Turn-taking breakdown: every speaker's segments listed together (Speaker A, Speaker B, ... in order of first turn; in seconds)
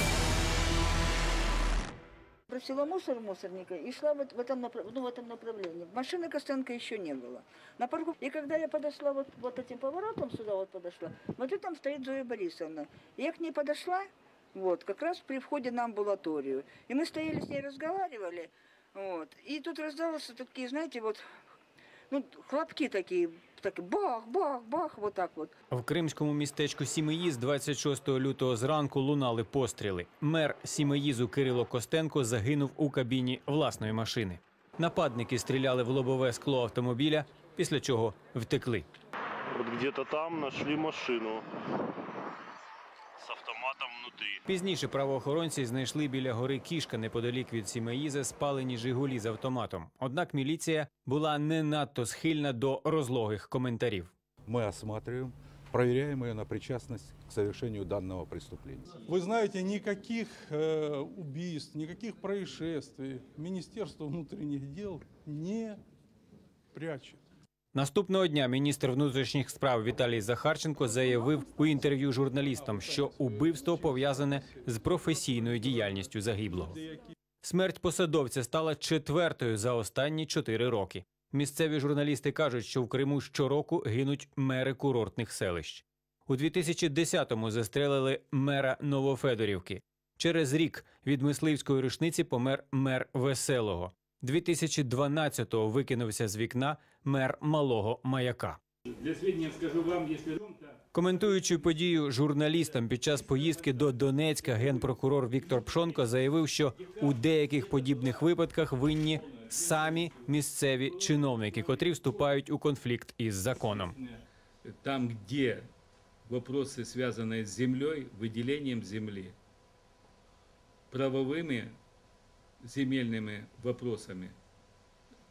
Speaker A: 2.5-21.2, 22.1-25.5
Speaker B: 25.7-38.9, 44.5-54.1, 67.7-76.8, 77.4-98.6, 100.9-114.0
Speaker C: 39.5-41.4, 43.2-44.4
Speaker D: 54.5-58.9
Speaker E: 59.1-65.8, 66.8-67.2, 72.9-73.3
Speaker F: 99.2-100.4, 114.7-115.7, 116.3-119.4, 120.9-121.8, 122.6-124.4